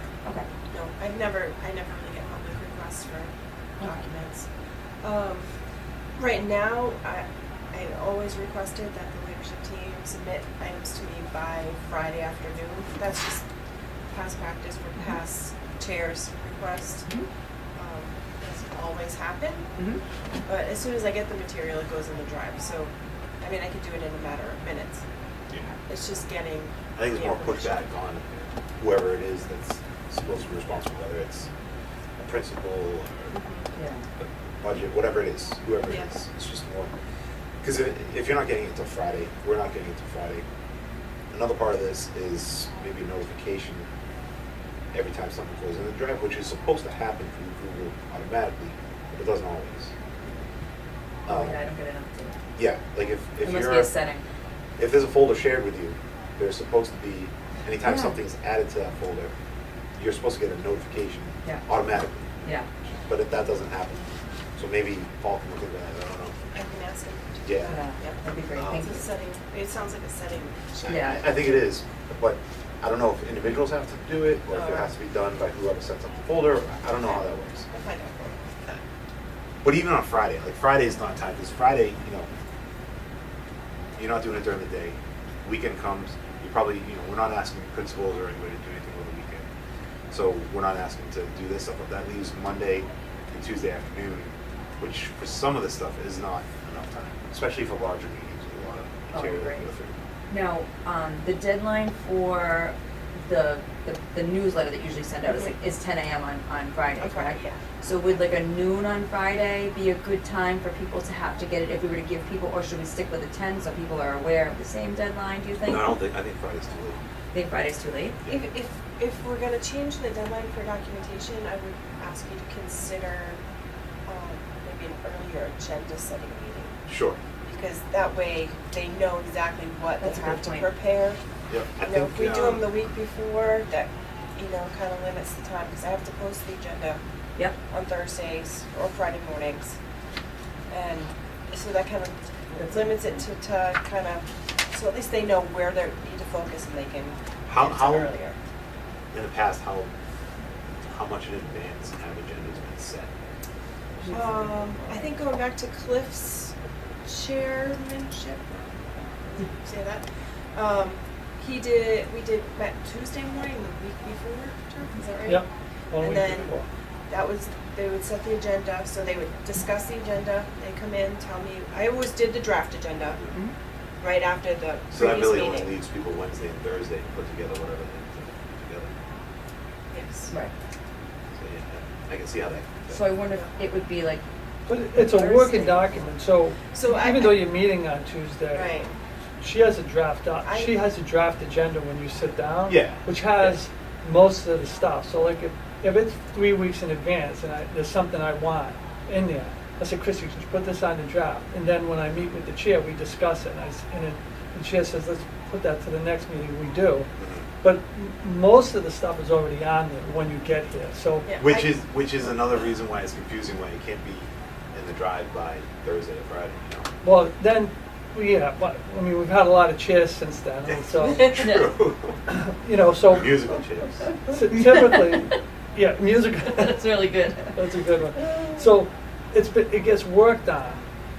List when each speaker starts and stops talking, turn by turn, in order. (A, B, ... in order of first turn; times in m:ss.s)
0:00.7-0:04.4 A
0:05.0-0:05.5 A
0:06.2-0:13.4 A
0:14.1-0:17.1 A
0:17.8-0:19.7 A
0:19.8-0:20.0 B
0:20.4-0:22.9 A
0:23.4-0:25.0 A
0:25.5-0:25.7 C
0:25.9-0:27.8 A
0:27.0-0:31.5 C
0:32.2-0:33.4 C
0:33.3-0:33.7 A
0:33.7-0:34.0 B
0:34.2-0:36.9 C
0:37.6-0:40.4 C
0:41.3-0:43.9 C
0:44.9-0:49.9 C
0:51.2-0:51.6 C
0:51.3-0:52.4 B
0:52.6-0:53.9 C
0:53.4-0:54.2 B
0:54.8-0:59.3 C
0:57.8-0:58.2 B
1:00.0-1:02.3 C
1:03.1-1:06.4 C
1:06.5-1:08.2 A
1:07.4-1:07.7 C
1:07.6-1:09.1 B
1:08.5-1:08.9 C
1:08.8-1:11.3 A
1:10.8-1:17.6 C
1:10.9-1:11.2 B
1:14.5-1:14.9 A
1:17.0-1:18.4 A
1:19.6-1:22.3 C
1:24.0-1:29.4 C
1:30.1-1:40.0 C
1:39.1-1:39.6 B
1:40.3-1:55.9 B
1:45.2-1:45.5 A
1:47.0-1:47.6 A
1:55.6-1:57.0 C
1:57.3-1:58.2 B
1:58.2-1:58.5 C
1:58.3-2:03.4 A
2:04.0-2:06.8 A
2:06.9-2:07.2 C
2:07.4-2:11.2 A
2:10.0-2:10.7 B
2:11.5-2:12.7 C
2:11.9-2:17.0 A
2:17.7-2:19.8 A
2:20.7-2:28.4 A
2:22.6-2:23.2 B
2:27.4-2:28.1 C
2:29.1-2:29.9 C
2:30.8-2:33.1 C
2:34.0-2:35.1 B
2:34.1-2:45.4 A
2:45.2-2:46.6 D
2:46.0-2:46.6 A
2:47.1-2:53.2 A
2:53.1-2:53.4 C
2:54.0-2:55.7 A
2:54.9-2:58.9 C
2:59.9-3:00.3 A
3:01.3-3:03.0 C
3:02.9-3:04.2 B
3:04.7-3:08.7 D
3:05.0-3:06.0 B
3:06.7-3:07.4 A
3:08.5-3:08.9 A
3:09.4-3:27.1 D
3:10.4-3:10.9 A
3:12.7-3:13.6 C
3:27.2-3:27.5 C
3:27.6-3:31.3 D
3:31.2-3:31.8 A
3:31.4-3:36.9 C
3:37.0-3:41.3 D
3:40.7-3:42.2 C
3:41.2-3:41.6 B
3:42.3-3:43.4 D
3:43.0-3:44.1 C
3:44.3-3:46.8 D
3:44.7-3:45.4 B
3:46.5-3:47.6 B
3:47.5-3:50.8 D